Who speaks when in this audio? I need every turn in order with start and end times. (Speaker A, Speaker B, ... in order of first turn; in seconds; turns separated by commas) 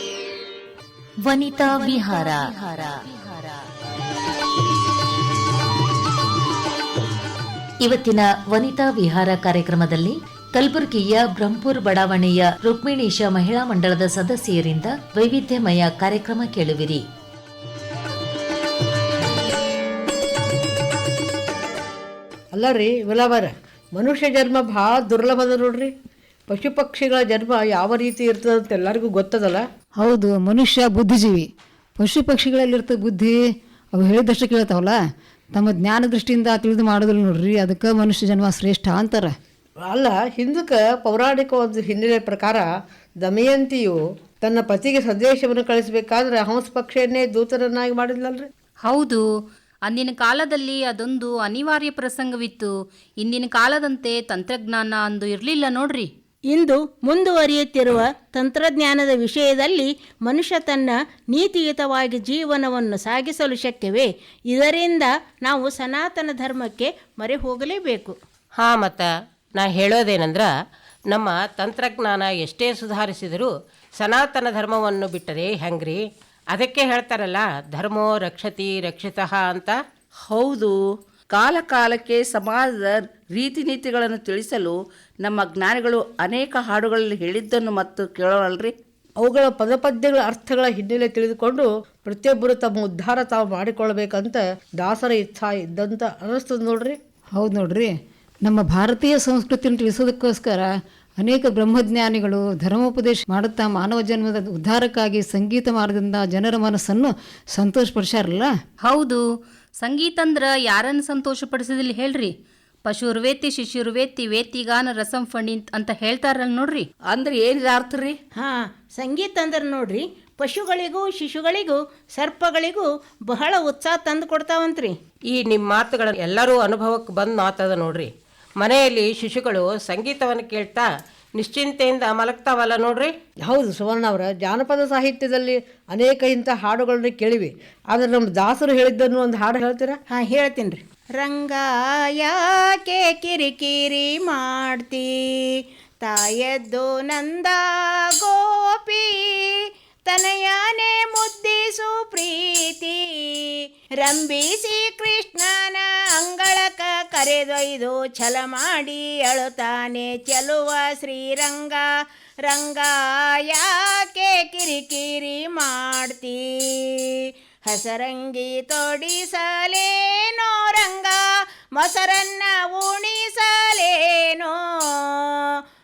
Speaker A: 1.2-3.5, Speaker A: 7.8-17.0, Speaker B: 22.5-25.9, Speaker B: 26.5-29.6, Speaker C: 30.0-33.4, Speaker C: 34.0-35.0, Speaker C: 35.6-39.3, Speaker B: 39.9-42.7, Speaker B: 43.2-48.5, Speaker D: 48.8-49.2, Speaker D: 49.9-56.1, Speaker E: 56.5-68.2, Speaker F: 68.6-70.5, Speaker F: 71.1-73.5, Speaker F: 74.0-76.0, Speaker F: 76.5-79.8, Speaker G: 80.3-80.7, Speaker G: 81.3-88.7, Speaker B: 89.2-97.0, Speaker C: 97.4-97.9, Speaker C: 98.4-108.5, Speaker D: 108.8-109.2, Speaker D: 109.8-112.3, Speaker D: 112.9-116.9, Speaker G: 117.1-118.2, Speaker E: 118.4-125.0, Speaker F: 125.3-128.1, Speaker F: 128.6-130.9, Speaker F: 131.4-133.1, Speaker B: 133.5-139.9, Speaker E: 140.1-147.6, Speaker E: 148.2-161.9, Speaker E: 162.5-175.4